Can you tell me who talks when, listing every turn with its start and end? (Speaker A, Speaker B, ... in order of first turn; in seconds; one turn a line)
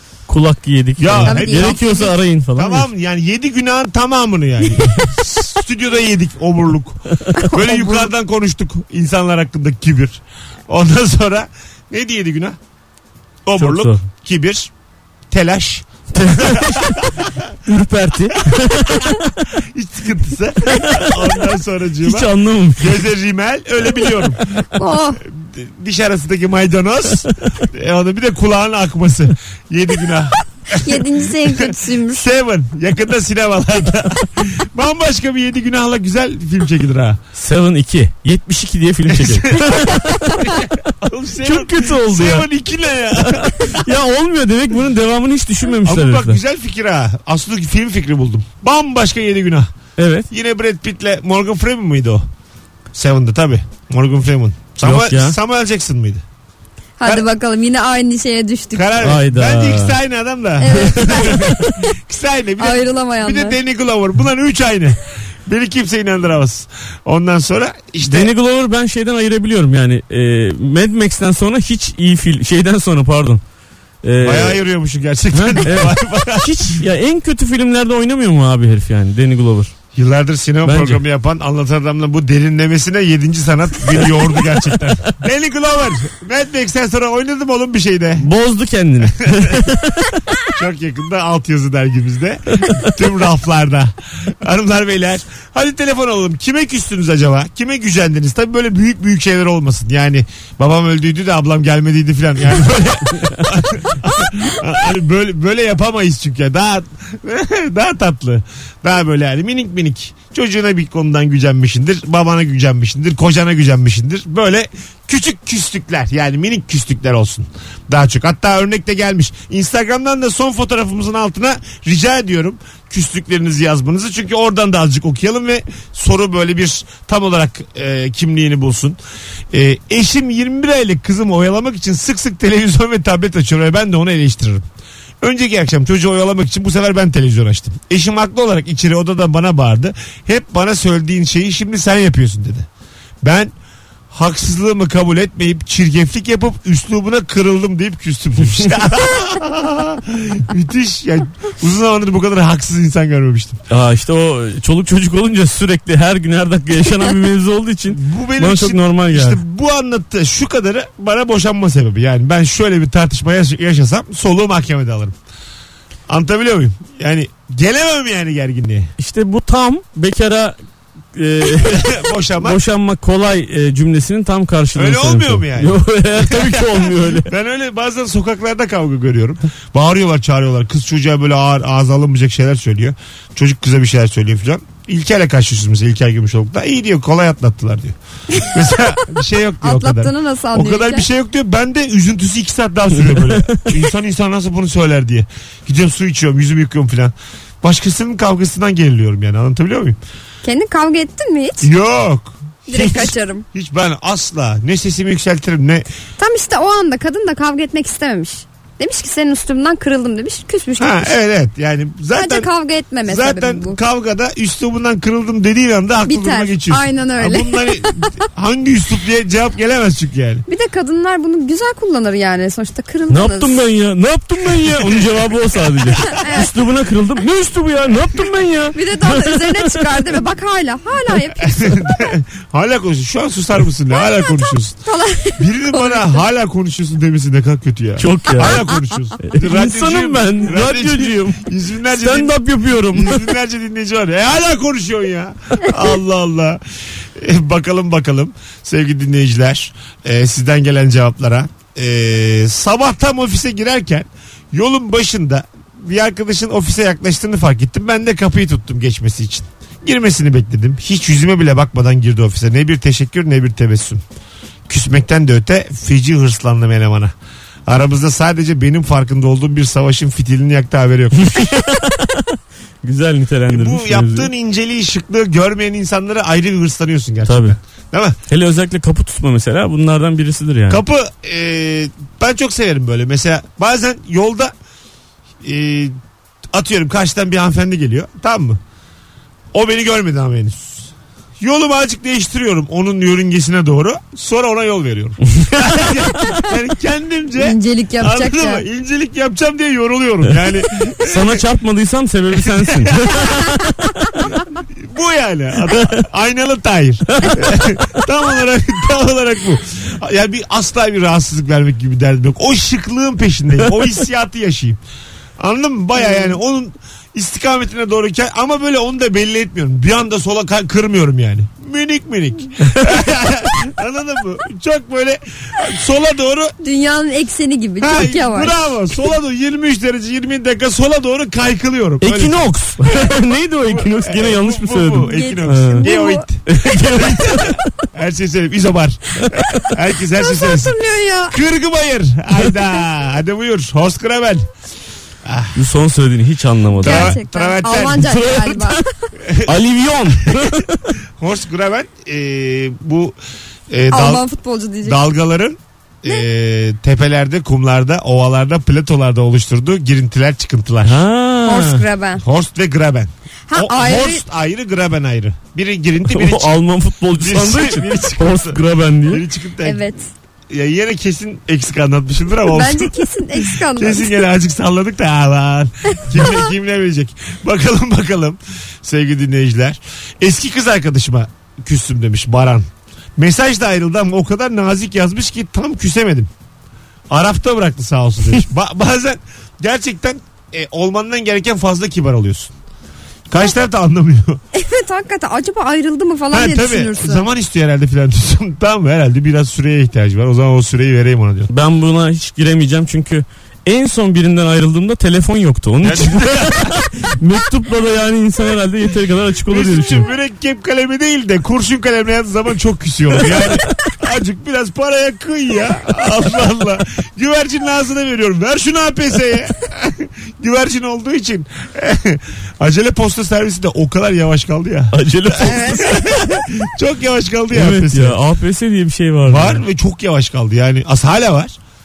Speaker A: 0.3-2.9
Speaker B: 1.0-12.6
Speaker C: 1.2-2.1
Speaker C: 7.4-8.1
Speaker B: 13.4-14.7
Speaker A: 13.6-14.0
Speaker B: 15.3-17.6
Speaker A: 16.1-17.0
Speaker A: 17.6-19.3
Speaker B: 18.4-24.6
Speaker A: 20.8-21.1
Speaker A: 22.0-23.0
Speaker C: 24.7-25.2
Speaker B: 25.2-37.2
Speaker C: 30.7-32.3
Speaker A: 37.4-40.5
Speaker B: 39.1-43.9
Speaker A: 41.4-42.5
Speaker A: 43.2-46.4
Speaker B: 45.8-49.7
Speaker A: 50.0-50.3
Speaker B: 50.3-52.2
Speaker B: 52.9-56.2
Speaker A: 54.8-55.4
Speaker C: 57.0-58.9
Speaker B: 58.7-68.3
Speaker A: 59.0-60.0
Speaker C: 60.6-61.5
Speaker A: 61.0-61.8
Speaker C: 62.6-63.6
Speaker A: 68.0-73.4
Speaker A: 74.0-74.6
Speaker B: 74.2-76.8
Speaker A: 75.3-79.7
Speaker B: 79.9-88.3
Speaker A: 80.6-81.0
Speaker A: 88.2-90.2
Speaker B: 89.2-89.6
Speaker B: 90.5-129.0
Speaker B: 129.5-134.7
Speaker B: 135.2-142.7
Speaker B: 143.2-143.5
Speaker B: 144.1-153.6
Speaker A: 153.7-159.4
Speaker B: 157.9-165.2
Speaker B: 166.1-168.9
Speaker A: 169.0-170.6
Speaker A: 171.1-177.3
Speaker B: 171.4-172.6
Speaker B: 174.7-200.0
Speaker C: 189.6-191.1
Speaker C: 200.4-201.7
Speaker B: 201.6-205.9
Speaker C: 202.7-203.4
Speaker C: 206.2-211.1
Speaker B: 210.8-212.5
Speaker C: 212.1-213.8
Speaker B: 213.0-220.4
Speaker C: 216.1-218.1
Speaker C: 220.5-223.6
Speaker A: 223.1-230.0
Speaker B: 224.7-225.2
Speaker C: 226.1-226.5
Speaker C: 228.7-232.1
Speaker B: 231.4-234.8
Speaker C: 234.8-236.2
Speaker B: 235.4-246.6
Speaker A: 238.0-238.7
Speaker C: 238.4-238.7
Speaker A: 239.2-243.3
Speaker B: 247.1-264.0
Speaker B: 264.7-267.1
Speaker B: 267.7-271.6
Speaker A: 271.2-274.3
Speaker B: 273.5-278.2
Speaker A: 277.2-277.6
Speaker A: 278.3-280.8
Speaker B: 280.7-284.5
Speaker B: 285.4-285.9
Speaker B: 286.5-288.6
Speaker B: 289.5-301.4
Speaker A: 295.3-296.4
Speaker C: 297.4-298.6
Speaker A: 301.0-304.2
Speaker B: 302.4-303.5
Speaker B: 304.7-314.8
Speaker A: 307.1-307.4
Speaker B: 315.4-326.5
Speaker C: 326.6-328.6
Speaker B: 327.8-333.1
Speaker A: 332.0-335.9
Speaker B: 333.6-340.8
Speaker C: 335.0-336.2
Speaker A: 336.5-337.7
Speaker C: 340.2-341.4
Speaker B: 341.3-344.5
Speaker B: 345.2-345.6
Speaker A: 345.5-347.2
Speaker C: 346.8-348.8
Speaker B: 346.8-348.2
Speaker A: 348.0-348.8
Speaker B: 349.2-349.6
Speaker A: 349.4-350.9
Speaker B: 350.2-350.6
Speaker B: 351.2-353.1
Speaker B: 353.7-354.2
Speaker C: 353.9-355.0
Speaker B: 354.8-361.0
Speaker A: 360.9-361.8
Speaker C: 361.4-362.2
Speaker B: 362.2-366.5
Speaker C: 363.5-364.2
Speaker A: 366.1-369.2
Speaker B: 367.2-369.8
Speaker C: 369.6-370.1
Speaker B: 370.5-386.3
Speaker C: 372.4-374.2
Speaker B: 387.1-392.5
Speaker B: 393.3-394.4
Speaker C: 394.5-397.3
Speaker B: 396.3-401.5
Speaker A: 401.5-410.1
Speaker B: 405.8-406.8
Speaker B: 409.5-428.2
Speaker A: 424.9-426.1
Speaker A: 427.5-429.6
Speaker B: 429.2-431.6